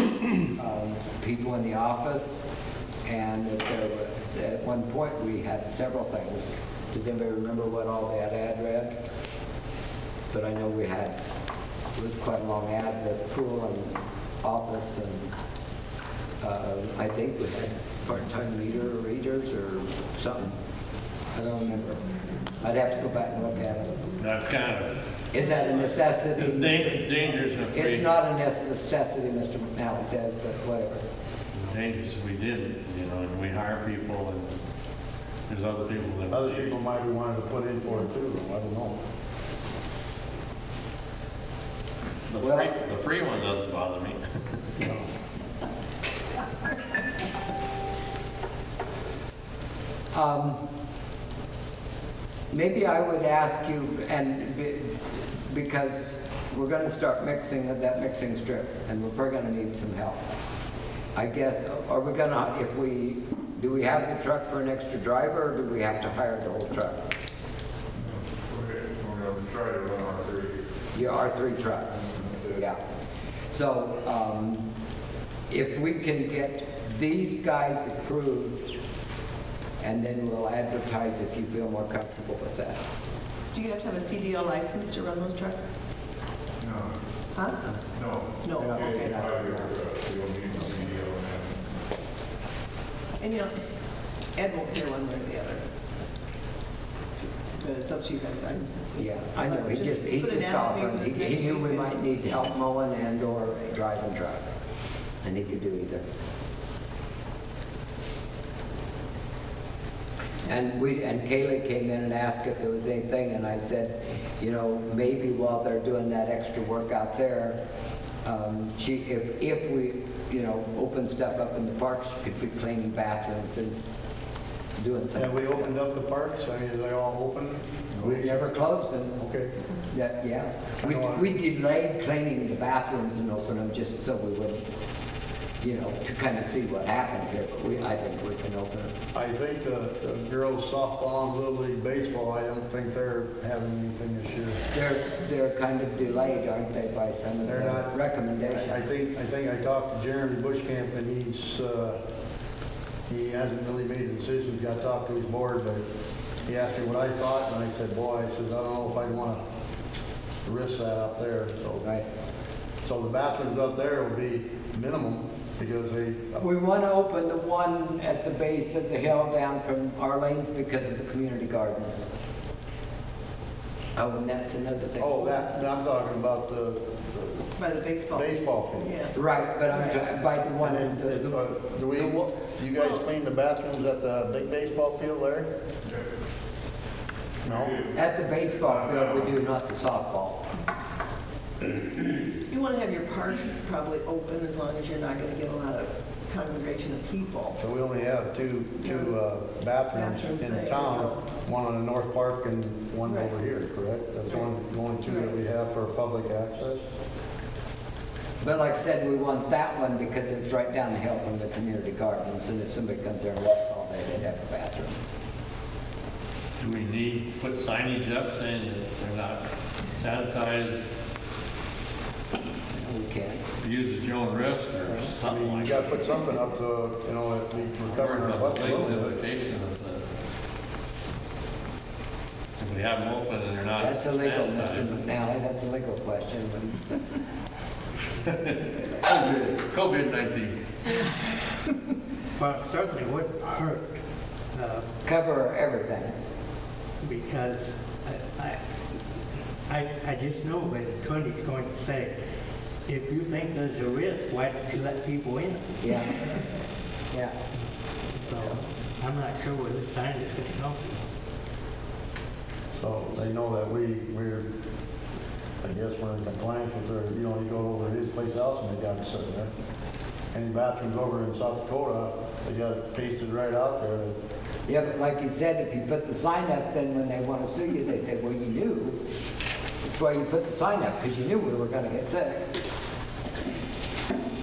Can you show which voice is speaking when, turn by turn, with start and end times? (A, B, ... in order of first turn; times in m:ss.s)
0:00.6-0:02.5 A
0:03.0-0:08.9 A
0:10.3-0:11.2 A
0:11.9-0:15.3 A
0:16.4-0:20.6 A
0:21.3-0:22.0 A
0:22.6-0:24.0 A
0:24.2-0:24.9 B
0:25.3-0:26.9 A
0:26.4-0:28.1 B
0:27.7-0:31.0 A
0:31.6-0:34.5 B
0:35.5-0:36.7 B
0:36.3-0:39.0 C
0:42.3-0:44.2 B
0:42.4-0:42.7 A
0:50.1-0:50.6 A
0:52.5-1:00.2 A
1:01.1-1:07.0 A
1:08.0-1:10.6 D
1:10.9-1:12.8 A
1:12.0-1:12.6 D
1:13.5-1:14.6 A
1:15.5-1:18.7 A
1:19.8-1:22.8 A
1:23.5-1:25.6 E
1:26.6-1:26.9 D
1:27.3-1:27.6 E
1:27.9-1:31.5 D
1:28.4-1:29.1 E
1:28.6-1:29.7 A
1:33.2-1:33.5 E
1:34.3-1:35.6 E
1:37.2-1:41.9 E
1:39.0-1:44.5 A
1:45.2-1:46.0 A
1:50.4-1:57.6 A
1:58.2-2:03.8 A
2:04.8-2:05.7 A
2:05.2-2:08.5 C
2:08.0-2:09.2 A
2:09.2-2:09.5 C
2:09.9-2:14.6 A
2:10.8-2:11.3 C
2:15.6-2:18.9 A
2:19.1-2:24.6 C
2:24.7-2:28.8 A
2:27.4-2:28.0 C
2:28.5-2:32.0 C
2:33.1-2:35.8 C
2:36.5-2:39.4 C
2:40.4-2:41.9 C
2:42.8-2:46.4 C
2:46.4-2:52.0 A
2:54.0-2:55.3 A
2:55.0-2:57.5 C
2:57.6-2:59.2 E
2:58.1-2:58.9 C
2:59.1-3:01.4 A
2:59.7-3:00.0 E
3:00.6-3:05.5 C
3:07.4-3:07.8 C
3:07.4-3:08.0 D
3:07.9-3:10.4 A
3:08.6-3:09.3 D
3:12.5-3:17.6 E
3:17.6-3:26.8 C
3:18.8-3:19.1 E
3:19.9-3:21.2 E
3:23.0-3:23.3 E
3:25.0-3:25.3 E
3:28.4-3:35.0 A
3:36.6-3:40.8 B
3:42.7-3:43.4 A
3:43.6-3:46.0 B
3:45.2-3:49.1 C
3:47.8-3:50.0 B
3:52.6-3:54.9 B
3:53.8-3:57.0 A
3:58.3-3:58.6 B
3:59.1-3:59.5 A
3:59.3-4:01.0 B
4:02.4-4:03.9 F
4:04.5-4:04.8 F
4:05.0-4:06.1 A
4:07.0-4:08.6 F
4:09.7-4:12.1 F
4:12.9-4:15.7 F
4:15.8-4:16.2 A
4:18.2-4:21.0 F
4:22.7-4:24.4 C
4:25.6-4:29.5 C
4:30.3-4:34.1 C
4:34.7-4:39.0 A
4:39.8-4:42.6 A